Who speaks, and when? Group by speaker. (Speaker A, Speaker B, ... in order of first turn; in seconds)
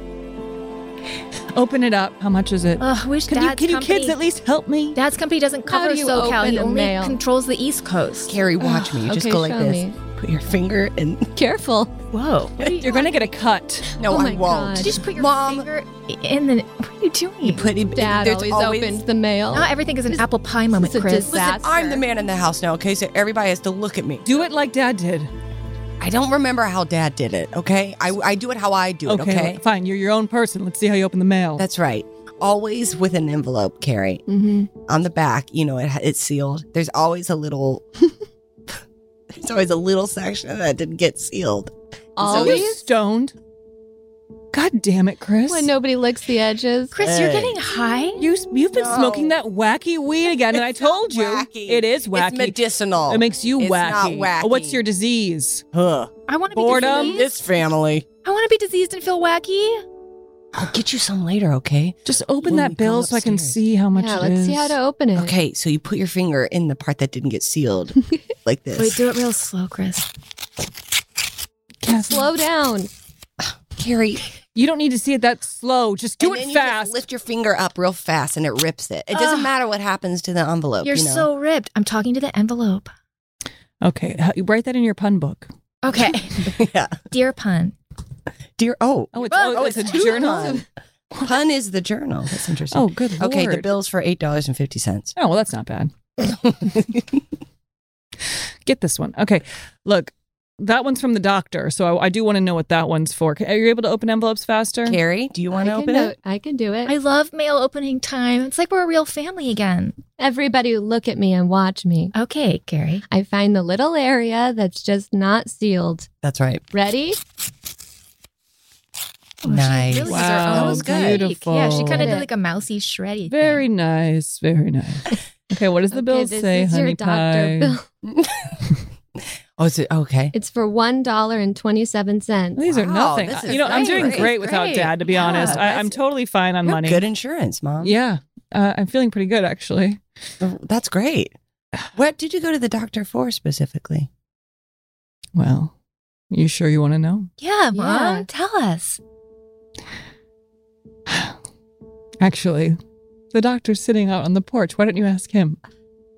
Speaker A: 1.5-5.0, 12.8-13.9, 24.2-25.3, 29.1-31.6, 42.2-43.3, 44.5-45.7, 48.2-55.6, 56.5-57.2, 62.0-64.8, 71.8-72.3, 74.5-77.0, 83.8-85.5, 89.1-90.6, 92.7-93.7, 95.2-95.9, 98.7-105.0, 120.0-122.1, 123.3-127.7, 132.6-137.0, 137.8-140.0, 145.3-145.7, 146.3-147.3, 151.1-151.3, 152.2-152.8, 153.3-155.6
Speaker B: 2.8-4.2, 4.9-8.3, 12.1-13.2, 14.8-17.7, 19.5-21.4, 46.9-48.2, 56.3-57.4, 58.2-59.8, 68.8-70.1, 79.1-79.5, 80.8-82.9, 85.8-86.6, 87.1-87.7, 89.3-90.5, 106.8-110.0, 112.1-113.0, 119.4-123.6, 134.1-135.5, 147.4-149.0
Speaker C: 5.7-7.2, 8.9-9.9, 11.3-12.0, 14.0-14.9, 17.9-20.2, 20.8-22.0, 34.3-34.7, 42.1-42.8, 45.5-47.0, 63.9-65.3, 71.9-72.9, 105.5-106.9, 110.2-112.1, 113.1-116.1, 116.7-117.2, 121.8-122.3, 125.9-127.8, 130.3-132.7, 133.4-134.6, 135.2-135.7, 147.7-148.3
Speaker D: 8.3-11.3, 14.0-15.7, 17.4-19.0, 21.1-24.2, 26.0-29.6, 31.6-34.2, 34.9-37.9, 39.3-42.7, 47.0-47.6, 48.7-49.4, 50.5-54.8, 55.7-58.0, 60.5-63.6, 65.1-69.0, 73.7-74.2, 76.2-81.3, 86.4-87.0, 88.6-90.6, 91.2-95.1, 96.2-97.2, 104.8-106.2, 116.2-116.6, 119.4-121.2, 128.0-128.7, 129.6-130.3, 132.7-134.3, 135.2-135.8, 136.6-137.9, 140.4-141.3, 141.9-144.1